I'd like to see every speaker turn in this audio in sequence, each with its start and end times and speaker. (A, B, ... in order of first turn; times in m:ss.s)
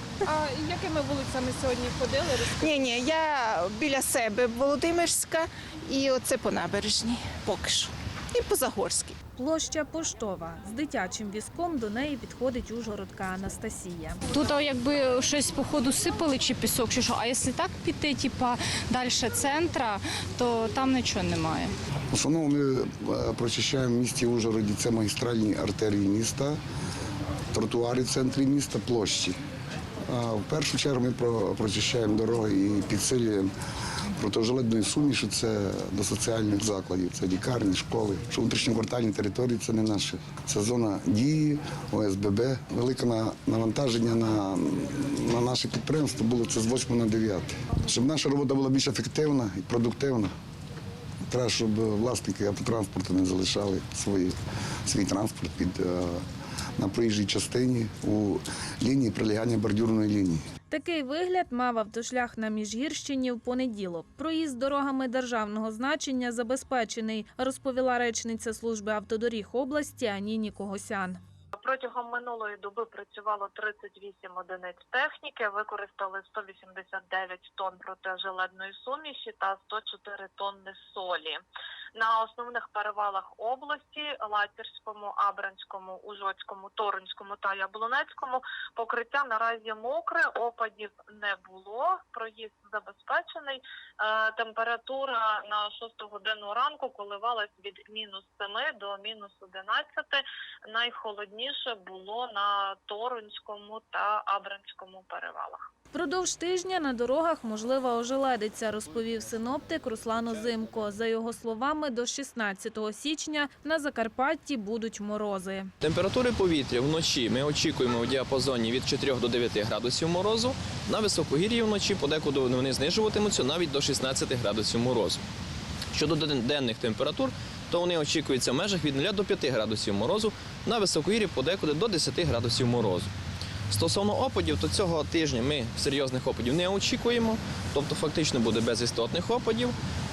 0:00.3-0:02.6 A
0:02.5-0:09.2 B
0:09.4-0:14.2 C
0:14.3-0:21.7 D
0:22.1-0:26.6 E
0:27.5-0:29.4 E
0:30.1-0:33.5 E
0:34.2-0:50.3 E
0:51.3-0:56.2 E
0:56.8-1:00.4 E
1:00.7-1:11.2 C
1:11.6-1:21.4 F
1:21.9-1:45.6 F
1:45.9-1:55.7 C
1:55.8-2:05.2 G
2:05.9-2:13.1 G
2:13.7-2:19.7 G